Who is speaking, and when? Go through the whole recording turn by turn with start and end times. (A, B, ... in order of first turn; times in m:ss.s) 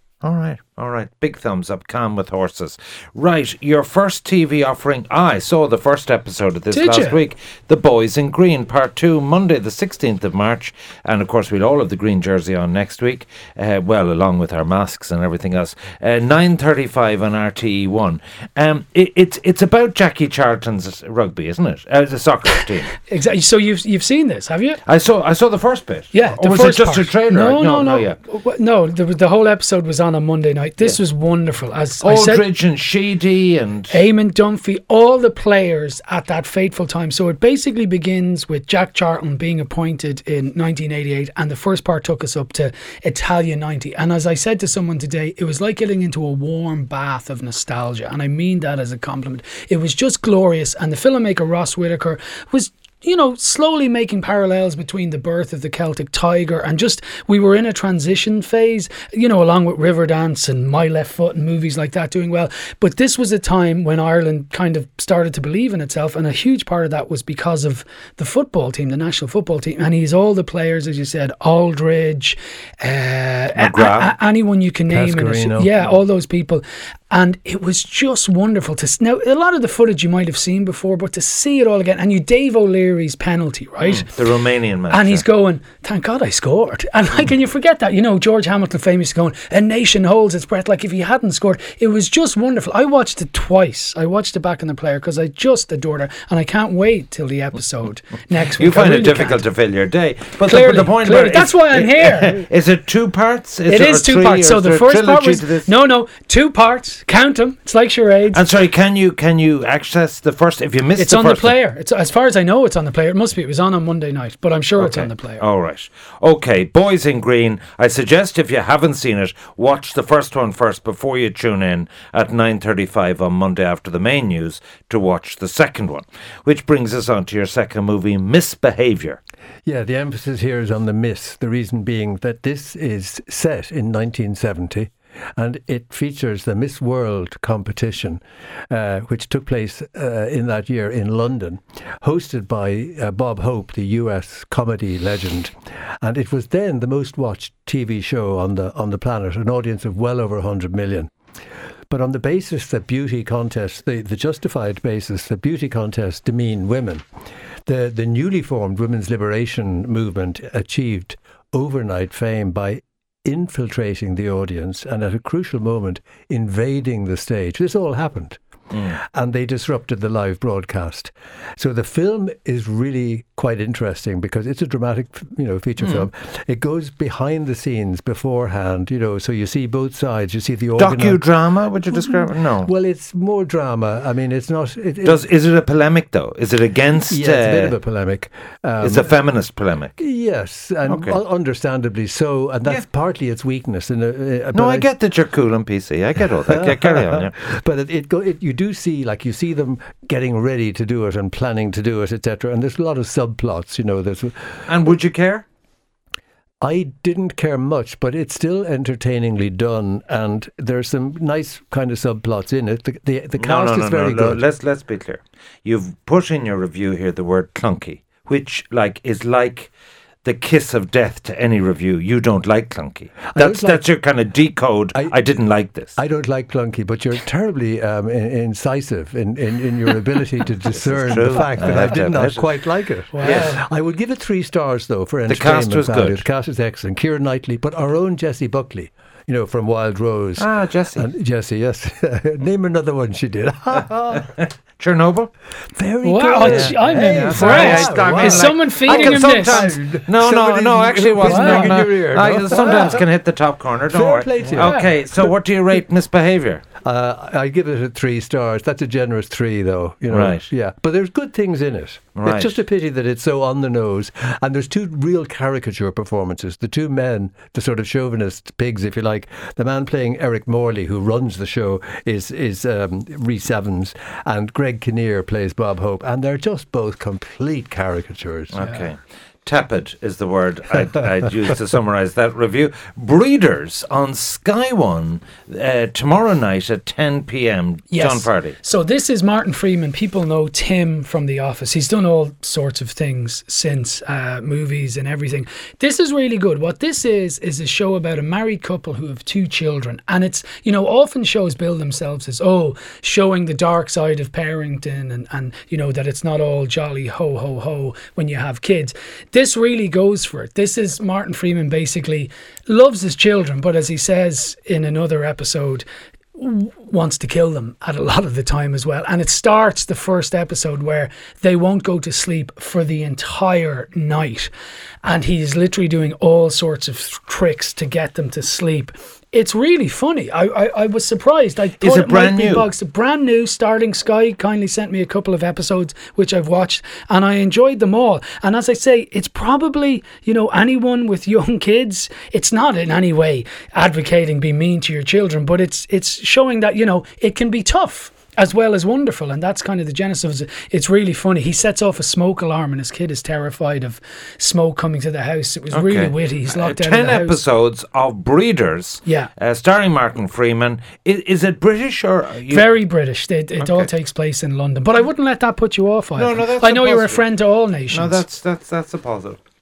0:00.2-0:23.0 A
0:06.7-0:07.2 B
0:23.0-0:24.8 B
0:24.8-0:28.2 A
0:26.1-0:32.5 B
0:32.0-0:33.9 A
0:33.9-1:24.2 B
1:13.5-1:14.1 A
1:14.9-1:16.0 C
1:23.8-1:25.2 A
1:24.9-1:39.4 B
1:38.6-1:45.7 A
1:40.4-1:42.4 B
1:43.7-1:48.4 B
1:48.3-1:51.5 A
1:51.0-1:55.4 B
1:54.8-2:09.2 A
2:09.6-2:31.1 C
2:31.9-2:37.0 C
2:37.6-3:01.2 C
2:55.8-2:56.0 A
3:00.8-3:02.7 A
3:01.9-3:05.3 C
3:05.0-3:07.8 A
3:07.1-3:09.2 C
3:08.8-3:10.0 A
3:10.0-3:14.9 C
3:10.8-3:11.2 A
3:14.5-3:17.3 A
3:16.5-3:24.6 C
3:24.7-3:25.4 A
3:26.6-3:34.4 C
3:33.4-3:39.7 A
3:40.2-3:45.9 A
3:43.3-3:43.8 C
3:45.9-4:04.3 C
3:50.7-3:52.5 A
3:53.1-3:53.6 B
3:53.2-3:53.5 A
3:55.3-3:56.2 A
4:00.4-4:01.1 A
4:04.8-4:05.3 A
4:05.7-4:13.1 C
4:06.0-4:09.6 B
4:06.4-4:16.6 A
4:11.2-4:11.8 B
4:12.6-4:12.9 B
4:13.9-4:15.0 C
4:14.5-4:14.9 B
4:16.8-4:38.5 C
4:20.1-4:20.5 A
4:22.2-4:22.5 A
4:38.5-4:48.6 A
4:38.6-4:38.9 B
4:47.9-5:15.8 B
5:16.4-5:24.5 B
5:25.0-5:57.4 B
5:31.8-5:32.7 A
5:55.7-6:02.7 A
5:59.0-5:59.3 B
6:02.5-6:08.2 B
6:03.6-6:03.9 A
6:06.1-6:07.2 A
6:07.9-6:09.4 A